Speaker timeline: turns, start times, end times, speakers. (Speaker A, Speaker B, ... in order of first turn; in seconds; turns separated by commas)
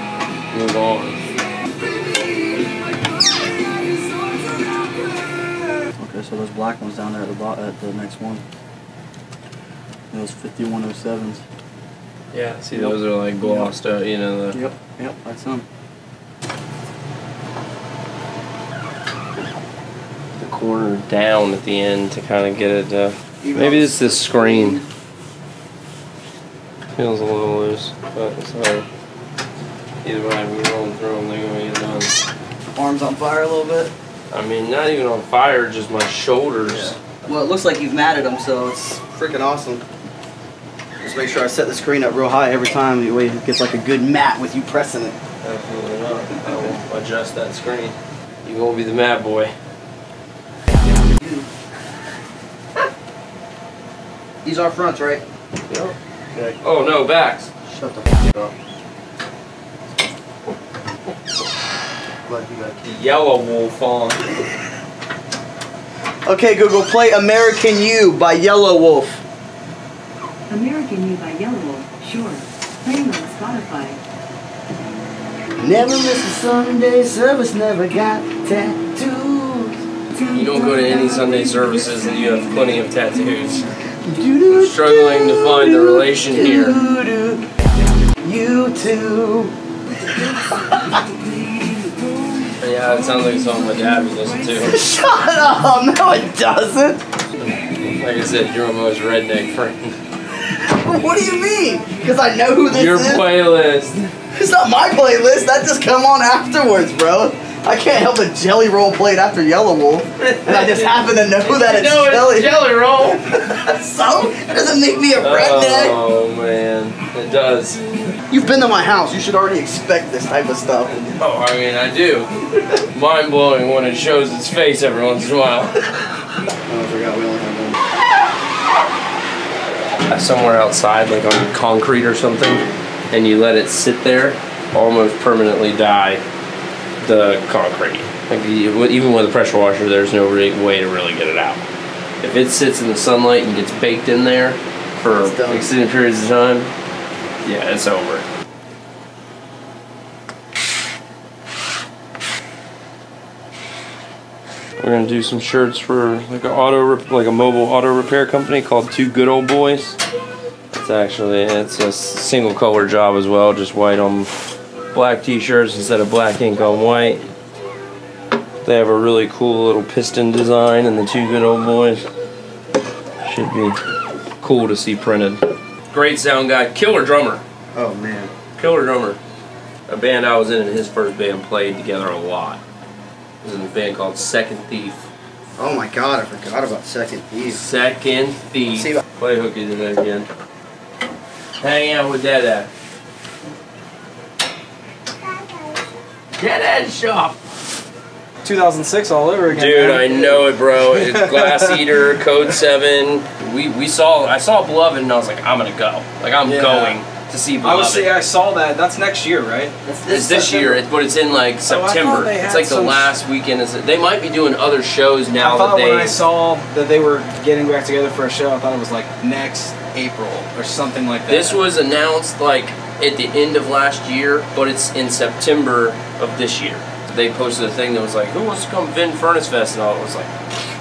Speaker A: 0.5-1.2, Speaker B: 6.0-8.4, Speaker B: 10.1-11.4, Speaker A: 12.3-14.6, Speaker B: 12.7-13.7, Speaker B: 14.5-15.6, Speaker A: 20.4-24.8, Speaker B: 23.4-24.8, Speaker A: 26.9-28.9, Speaker A: 30.0-32.1, Speaker B: 32.7-33.9, Speaker A: 34.3-36.9, Speaker B: 36.7-39.8, Speaker B: 41.0-45.2, Speaker A: 45.4-49.5, Speaker B: 51.2-51.5, Speaker B: 54.4-55.2, Speaker A: 55.7-55.9, Speaker A: 56.6-57.5, Speaker B: 57.6-58.5, Speaker B: 62.2-63.0, Speaker A: 62.9-64.2, Speaker B: 66.2-69.2, Speaker C: 70.5-74.0, Speaker B: 75.6-79.8, Speaker A: 80.3-83.6, Speaker B: 84.0-87.4, Speaker A: 84.5-86.8, Speaker B: 88.2-89.5, Speaker B: 90.6-91.0, Speaker A: 92.6-94.8, Speaker B: 94.6-97.0, Speaker A: 97.5-99.9, Speaker B: 100.5-103.2, Speaker A: 102.7-104.1, Speaker B: 104.3-116.0, Speaker A: 110.2-113.2, Speaker A: 115.2-117.8, Speaker B: 118.3-121.1, Speaker A: 121.2-122.3, Speaker A: 122.9-125.8, Speaker B: 126.7-127.8, Speaker A: 130.1-136.2, Speaker A: 137.0-141.6, Speaker A: 142.2-146.7, Speaker B: 145.1-145.7, Speaker A: 147.4-148.2, Speaker A: 154.8-160.0, Speaker A: 160.8-164.3, Speaker A: 164.9-167.2, Speaker A: 168.6-172.0, Speaker A: 173.2-173.8, Speaker A: 174.4-177.4, Speaker B: 177.7-178.3, Speaker A: 178.6-179.2, Speaker A: 179.9-182.6, Speaker A: 183.4-185.0, Speaker B: 185.6-187.6, Speaker A: 187.4-190.3, Speaker B: 188.8-189.0, Speaker A: 191.6-192.7, Speaker A: 196.4-197.3, Speaker D: 198.4-201.8, Speaker A: 199.5-208.2, Speaker D: 206.4-207.0, Speaker D: 207.6-209.7, Speaker B: 209.8-210.8, Speaker A: 210.1-216.2, Speaker D: 211.7-213.1, Speaker D: 215.4-221.6, Speaker A: 221.3-230.3